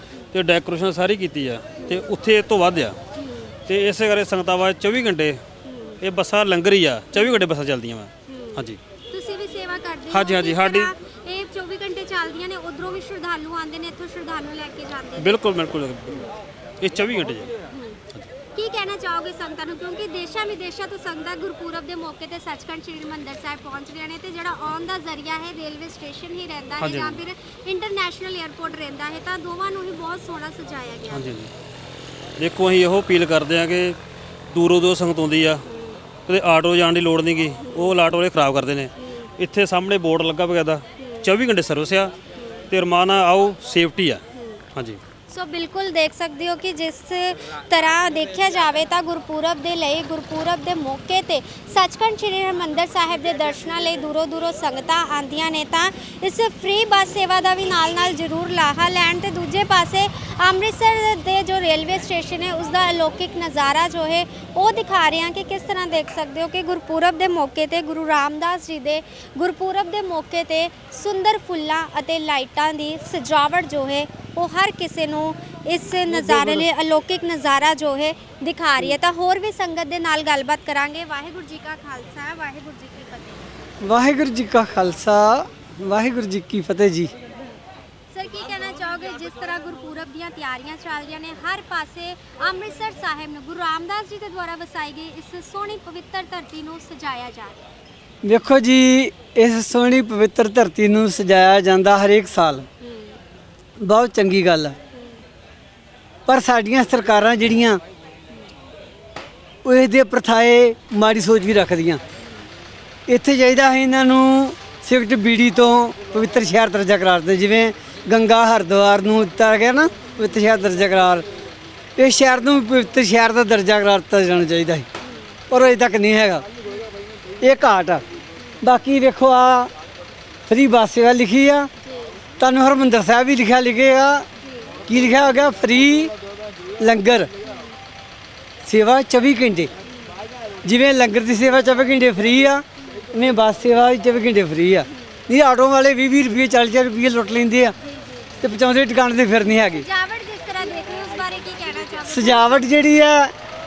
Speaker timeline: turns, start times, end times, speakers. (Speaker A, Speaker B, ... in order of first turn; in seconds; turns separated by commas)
Speaker A: 0.3-3.0, Speaker B: 1.8-2.1, Speaker B: 3.1-3.5, Speaker A: 3.7-5.4, Speaker B: 5.6-6.0, Speaker A: 6.0-8.8, Speaker B: 7.1-7.4, Speaker B: 8.3-15.4, Speaker A: 10.1-10.9, Speaker A: 15.2-17.5, Speaker B: 17.7-18.0, Speaker B: 18.5-31.3, Speaker A: 26.8-27.2, Speaker A: 31.1-31.5, Speaker A: 32.4-34.0, Speaker A: 34.5-35.6, Speaker B: 35.7-36.0, Speaker A: 36.3-42.1, Speaker B: 37.6-37.9, Speaker B: 39.0-39.3, Speaker B: 41.0-41.3, Speaker B: 42.3-42.7, Speaker A: 42.7-44.2, Speaker B: 44.3-44.6, Speaker A: 44.7-45.0, Speaker B: 45.3-83.6, Speaker C: 76.1-76.7, Speaker C: 83.8-87.1, Speaker B: 88.1-97.6, Speaker C: 98.2-102.7, Speaker B: 102.8-103.2, Speaker C: 103.8-104.8, Speaker B: 104.9-105.2, Speaker C: 106.2-107.8, Speaker C: 109.6-112.0, Speaker C: 113.1-121.2, Speaker B: 120.1-120.4, Speaker C: 122.0-124.8, Speaker B: 125.0-125.4, Speaker C: 125.5-126.5, Speaker C: 127.4-128.0, Speaker C: 128.6-129.7, Speaker C: 130.5-131.7, Speaker B: 131.8-132.2, Speaker C: 132.4-134.3, Speaker B: 134.4-134.8, Speaker C: 134.9-136.1, Speaker C: 136.8-137.3, Speaker B: 137.4-137.8, Speaker C: 138.6-139.7, Speaker C: 140.6-147.7, Speaker B: 142.8-143.1, Speaker B: 144.9-145.2, Speaker B: 147.8-148.5, Speaker C: 148.4-149.8, Speaker B: 149.5-152.8, Speaker C: 152.1-153.3